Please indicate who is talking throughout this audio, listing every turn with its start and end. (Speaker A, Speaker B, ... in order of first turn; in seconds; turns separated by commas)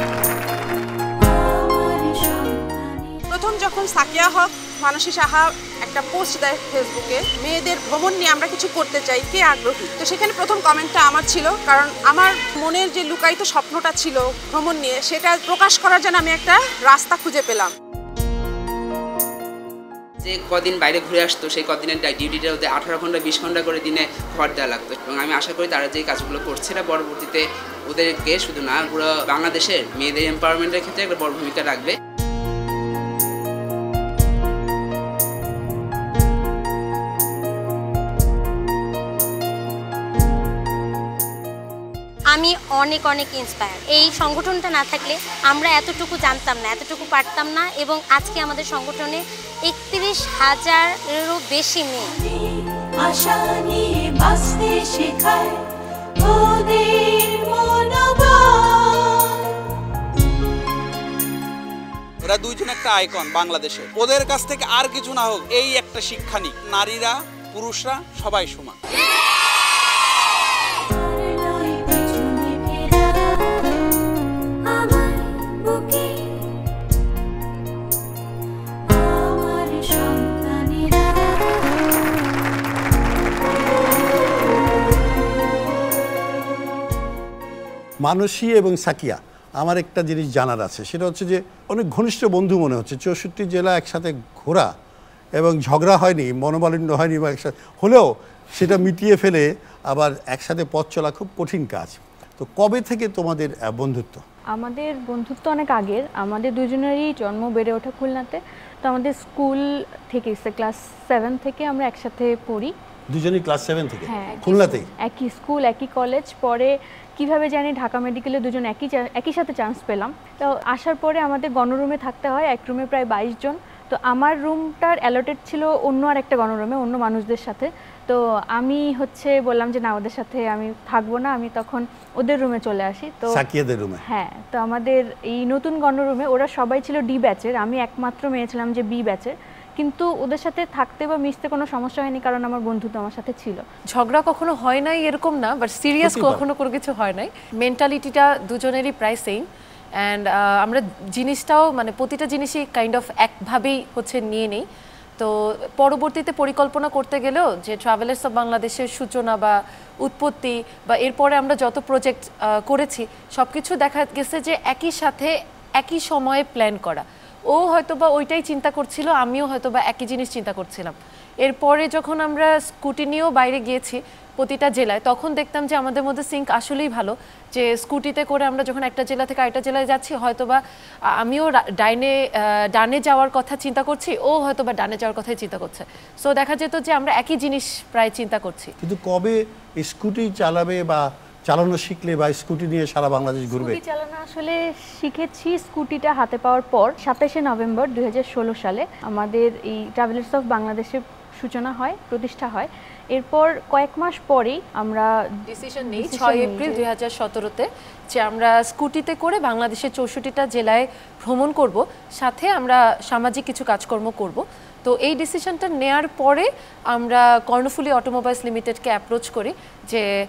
Speaker A: 1.2-3.2, Speaker B: 3.3-17.7, Speaker C: 20.2-31.9, Speaker D: 42.3-52.1, Speaker A: 53.0-55.6, Speaker A: 56.2-59.2, Speaker E: 62.3-68.8, Speaker A: 70.9-73.5, Speaker A: 74.7-76.3, Speaker A: 78.9-81.6, Speaker F: 88.0-94.7, Speaker F: 95.4-104.2, Speaker G: 104.5-112.7, Speaker F: 113.1-114.9, Speaker G: 114.1-133.4, Speaker F: 133.3-134.0, Speaker G: 134.1-143.6, Speaker H: 143.9-149.5, Speaker F: 146.0-146.4, Speaker H: 150.0-154.7, Speaker H: 155.2-180.6, Speaker H: 181.2-188.7, Speaker F: 188.8-193.8, Speaker G: 193.5-205.1, Speaker H: 205.5-220.1, Speaker G: 205.8-206.8